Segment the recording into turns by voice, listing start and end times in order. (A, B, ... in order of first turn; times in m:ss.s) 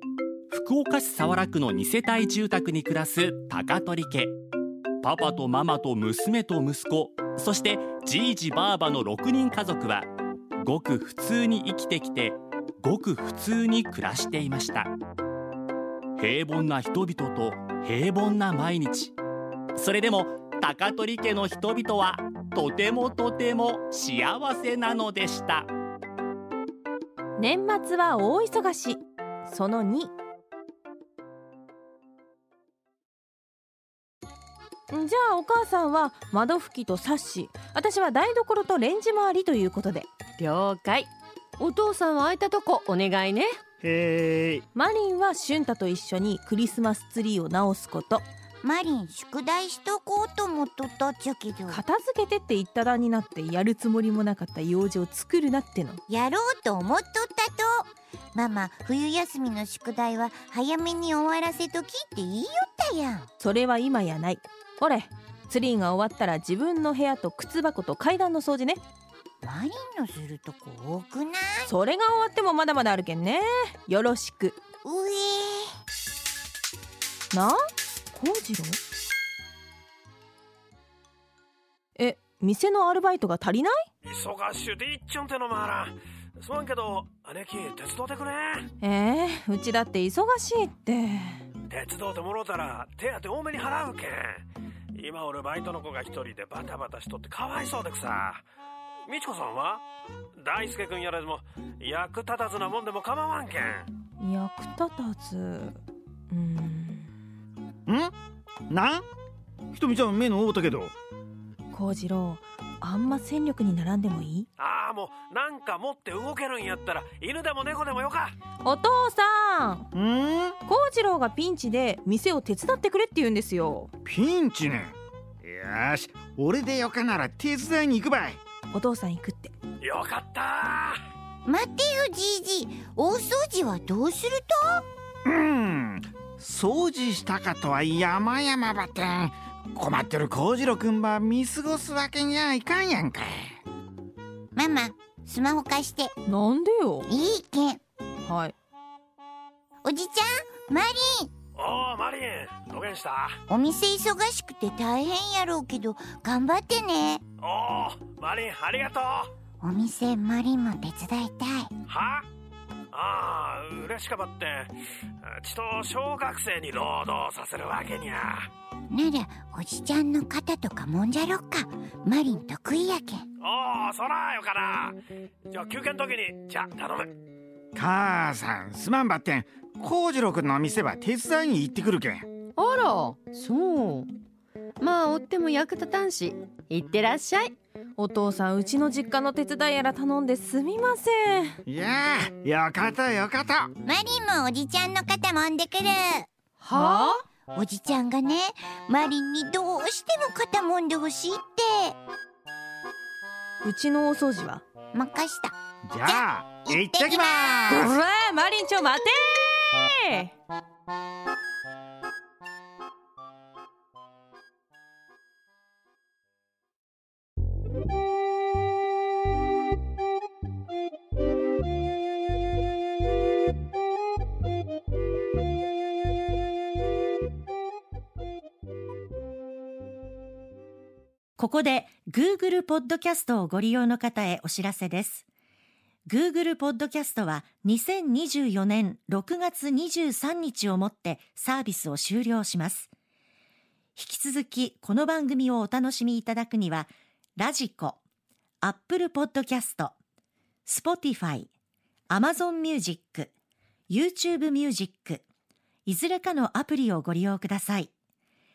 0:00.5-0:04.3 A
0:05.0-0:10.1 A
0:10.6-0:14.9 A
0:16.2-0:19.1 A
0:19.8-0:25.7 A
0:27.4-0:30.1 B
0:34.9-0:40.1 B
0:40.4-0:41.1 C
0:41.6-0:43.5 C
0:43.8-0:44.6 D
0:44.7-0:48.2 B
0:48.6-0:51.8 E
0:51.7-0:56.0 B
0:56.1-1:03.3 E
1:03.4-1:08.8 B
1:09.4-1:11.7 E
1:11.7-1:14.6 B
1:14.8-1:15.7 E
1:17.3-1:17.6 B
1:18.1-1:18.8 B
1:22.0-1:23.8 B
1:24.0-1:28.7 F
1:28.8-1:31.4 B
1:31.7-1:34.4 F
1:35.0-1:38.4 F
1:39.1-1:39.8 F
1:40.4-1:43.9 F
1:44.2-1:45.8 B
1:46.3-1:47.1 B
1:47.9-1:48.1 D
1:48.7-1:49.0 D
1:49.7-1:50.9 D
1:51.7-1:54.5 B
1:54.6-1:58.4 F
1:58.6-1:59.8 B
1:59.9-2:00.6 D
2:00.6-2:03.9 B
2:04.0-2:08.4 D
2:08.7-2:09.5 B
2:09.8-2:11.0 F
2:11.4-2:14.8 E
2:15.2-2:23.6 D
2:24.5-2:26.1 E
2:26.2-2:27.1 B
2:27.1-2:27.8 E
2:28.2-2:28.5 B
2:29.8-2:31.3 E
2:31.6-2:33.3 F
2:33.5-2:37.2 E
2:37.4-2:39.3 F
2:39.6-2:41.7 E
2:41.9-2:42.3 F
2:42.9-2:44.7 F
2:45.2-2:48.5 F
2:48.9-2:53.2 E
2:53.4-2:55.0 F
2:55.5-2:57.1 F
2:57.7-3:02.3 D
3:02.6-3:04.1 C
3:04.8-3:07.5 C
3:08.0-3:11.6 B
3:11.6-3:13.7 D
3:13.8-3:16.3 E
3:16.6-3:17.2 C
3:16.7-3:17.1 B
3:17.5-3:22.0 E
3:23.6-3:24.6 B
3:24.9-3:27.6 E
3:25.9-3:27.9 D
3:27.7-3:30.3 B
3:51.4-3:55.2 G
3:56.1-4:02.9 G
4:04.0-4:08.0 G
4:08.6-4:09.9 G
4:10.6-4:11.5 G
4:12.1-4:13.3 G
4:13.9-4:15.2 G
4:15.8-4:17.9 G